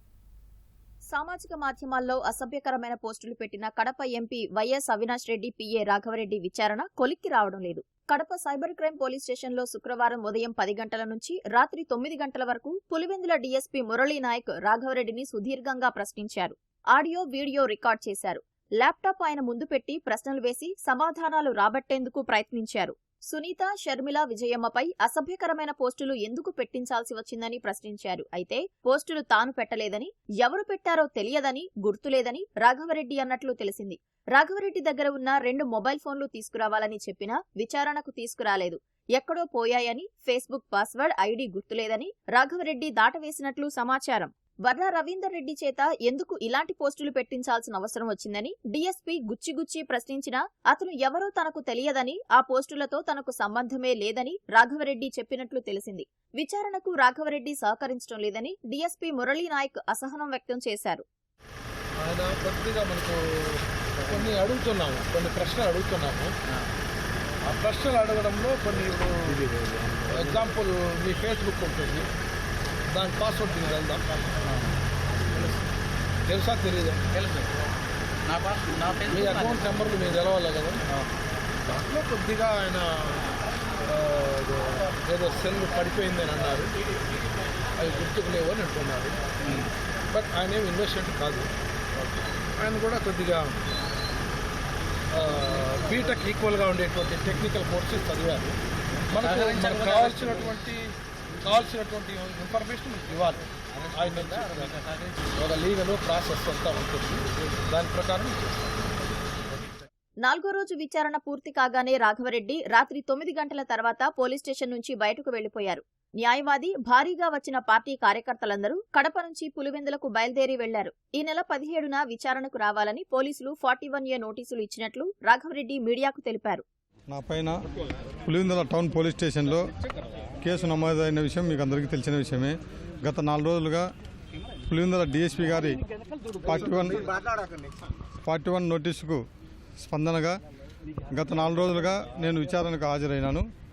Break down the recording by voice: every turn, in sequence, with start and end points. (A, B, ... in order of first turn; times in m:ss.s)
0:01.1-1:01.0 A
1:02.0-1:06.4 B
1:07.4-1:09.5 B
1:10.1-1:12.1 B
1:12.9-1:14.4 B
1:16.2-1:17.1 B
1:17.1-1:17.5 C
1:18.2-1:19.8 C
1:19.1-1:20.8 B
1:21.6-1:23.3 B
1:23.9-1:26.7 B
1:27.8-1:29.6 B
1:30.1-1:31.5 B
1:32.6-1:33.6 B
1:35.1-1:38.6 B
1:39.1-1:44.8 B
1:39.2-1:40.4 C
1:43.7-1:45.2 C
1:45.3-1:49.0 B
1:50.2-2:06.6 A
2:07.1-2:07.6 D
2:08.2-2:09.7 D
2:10.4-2:13.9 D
2:14.7-2:15.8 D
2:16.4-2:17.2 D
2:18.2-2:19.2 D
2:19.8-2:20.4 D
2:21.1-2:23.4 D